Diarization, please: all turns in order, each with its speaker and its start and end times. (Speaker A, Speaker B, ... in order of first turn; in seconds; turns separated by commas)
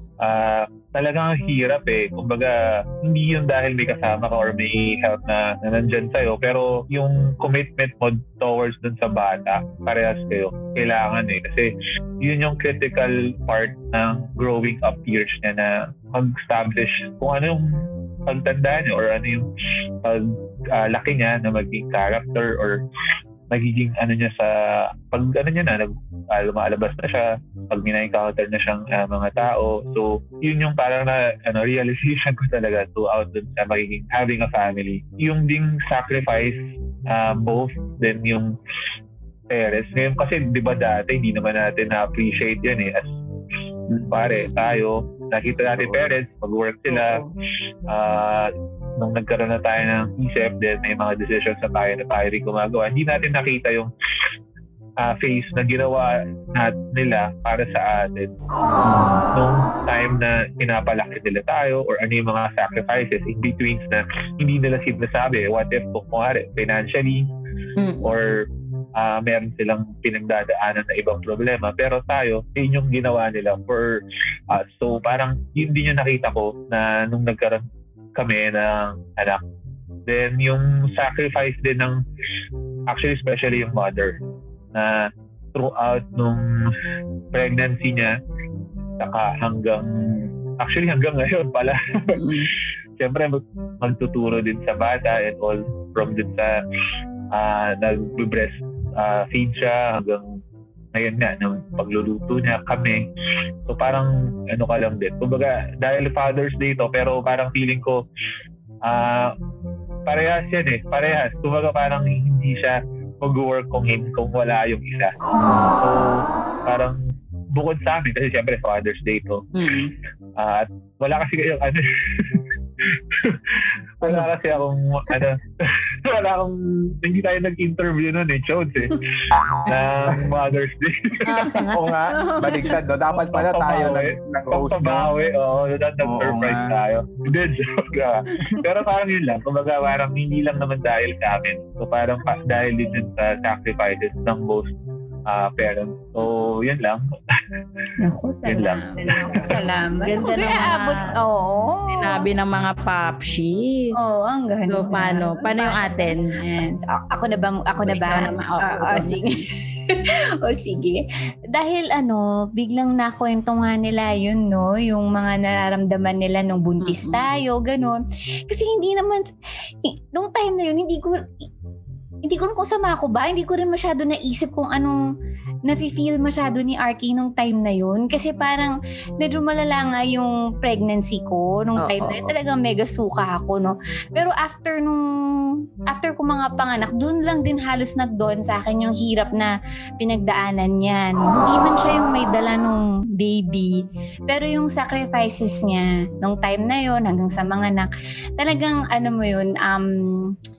Speaker A: 0.2-19.5, Speaker A: 20.0-22.8, Speaker A: 23.5-38.5, Speaker A: 39.5-43.1, Speaker A: 43.9-47.2, Speaker B: 44.2-44.8, Speaker C: 45.9-46.1, Speaker B: 46.9-47.3, Speaker A: 47.9-53.9, Speaker A: 55.0-67.3, Speaker B: 67.8-68.3, Speaker A: 68.0-77.6, Speaker A: 78.1-79.4, Speaker A: 80.0-82.0, Speaker A: 82.9-84.2, Speaker A: 84.7-86.7, Speaker A: 87.3-88.2, Speaker A: 89.0-92.3, Speaker B: 92.1-92.5, Speaker A: 93.0-96.6, Speaker A: 97.3-100.2, Speaker A: 100.9-103.1, Speaker A: 103.7-108.0, Speaker A: 108.8-109.3, Speaker A: 110.0-115.1, Speaker A: 115.7-117.0, Speaker A: 117.5-119.5, Speaker B: 119.5-119.9, Speaker A: 120.4-131.6, Speaker C: 124.0-124.3, Speaker B: 131.2-131.9, Speaker C: 131.7-135.1, Speaker D: 132.3-132.7, Speaker A: 133.1-144.7, Speaker C: 136.0-136.8, Speaker A: 145.3-147.0, Speaker B: 146.2-146.5, Speaker D: 148.0-152.2, Speaker A: 148.4-149.5, Speaker B: 150.0-151.1, Speaker B: 152.0-154.0, Speaker D: 153.9-161.0, Speaker B: 154.7-156.3, Speaker B: 157.9-159.4, Speaker D: 161.5-169.3, Speaker B: 166.8-167.2, Speaker D: 169.8-171.2, Speaker D: 172.2-175.0, Speaker D: 175.6-193.8, Speaker B: 181.8-182.3, Speaker D: 194.3-200.3